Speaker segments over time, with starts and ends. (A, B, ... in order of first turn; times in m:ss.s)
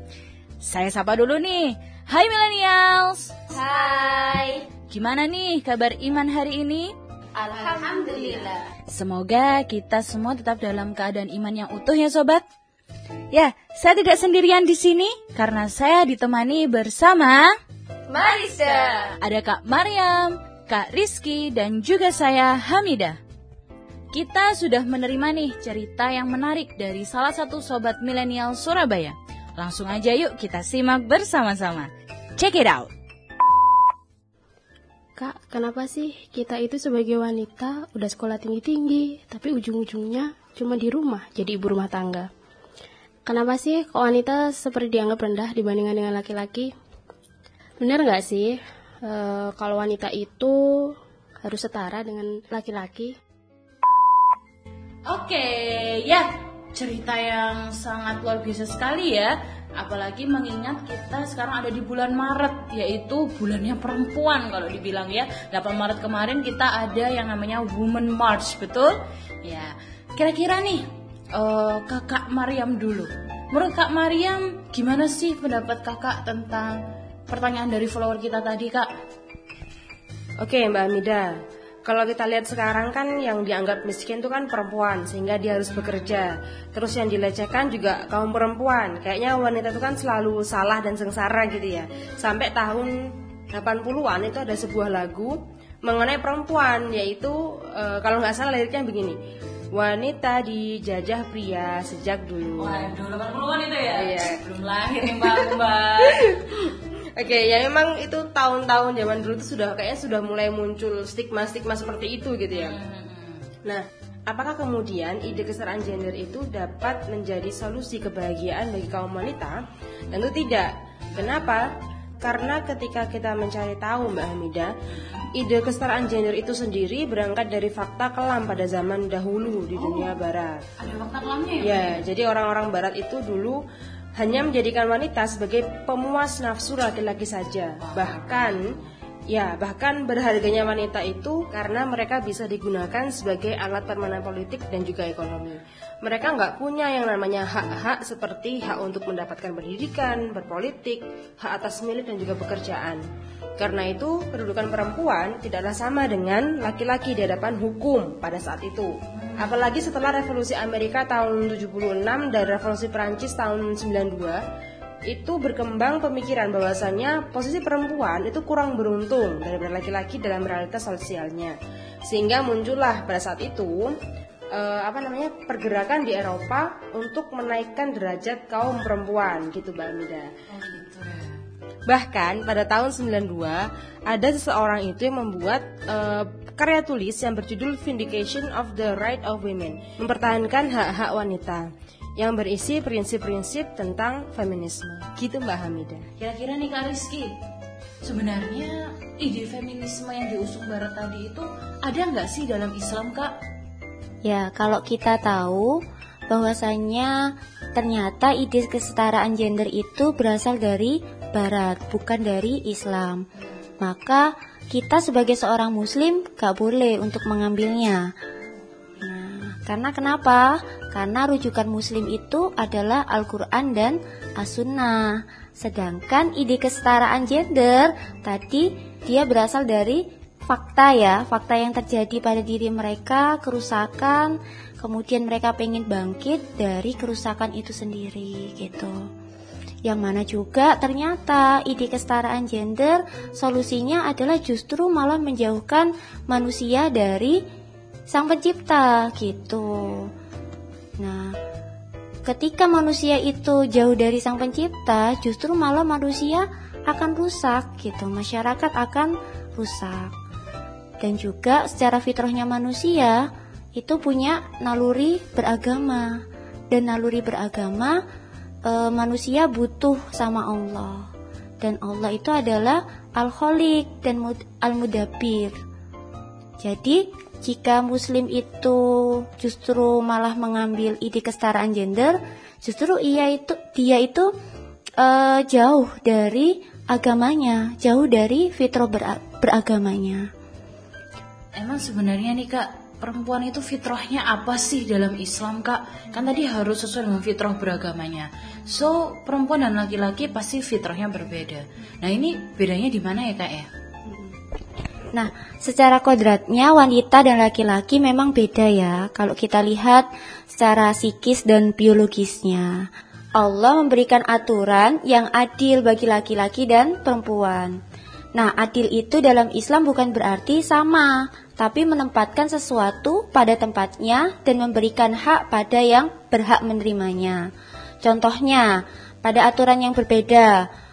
0:00.6-0:03.5 A
0:03.5-0:04.6 B
0:04.9-0:06.9 A
0:07.4-0:08.6 B
0:08.8-0:12.4 A
0:13.3-0:17.5 A
0:18.1-0:19.0 B
0:18.6-0:23.2 A
0:24.1-0:32.9 A
0:35.2-0:42.3 C
0:43.2-0:46.7 C
0:47.8-0:53.1 C
0:55.1-1:16.8 A
1:17.3-1:18.9 A
1:20.4-1:21.3 D
1:21.8-1:33.0 D
1:25.7-1:26.2 A
1:33.5-1:39.2 D
1:39.7-1:42.9 D
1:42.6-1:46.4 A
1:43.9-1:44.4 D
1:45.1-1:52.8 D
1:52.5-1:53.4 A
1:53.6-1:59.6 D
2:00.1-2:04.7 D
2:01.1-2:01.6 A
2:05.3-2:10.6 D
2:09.8-2:10.2 A
2:10.8-2:12.0 A
2:11.6-2:13.6 D
2:14.2-2:18.7 D
2:17.8-2:18.8 A
2:19.3-2:33.0 D
2:33.6-2:44.4 D
2:39.2-2:39.6 A
2:45.1-2:51.5 D
2:52.0-2:53.9 D
2:54.5-3:00.3 D
3:00.5-3:01.3 A
3:01.9-3:16.0 D
3:16.2-3:17.3 A
3:18.0-3:23.3 A
3:24.2-3:33.2 E
3:33.8-3:38.1 E
3:39.0-3:59.0 E
3:59.8-4:07.4 E
4:08.1-4:10.1 E
4:11.0-4:11.4 E
4:12.2-4:20.1 E
4:21.0-4:26.2 E
4:26.7-4:28.0 E
4:28.6-4:31.1 E
4:31.6-4:35.5 E
4:36.6-4:44.3 E
4:45.0-4:50.2 E
4:51.5-5:03.7 A
5:04.0-5:04.3 E
5:05.1-5:17.8 E
5:18.4-5:27.4 E
5:28.0-5:30.7 E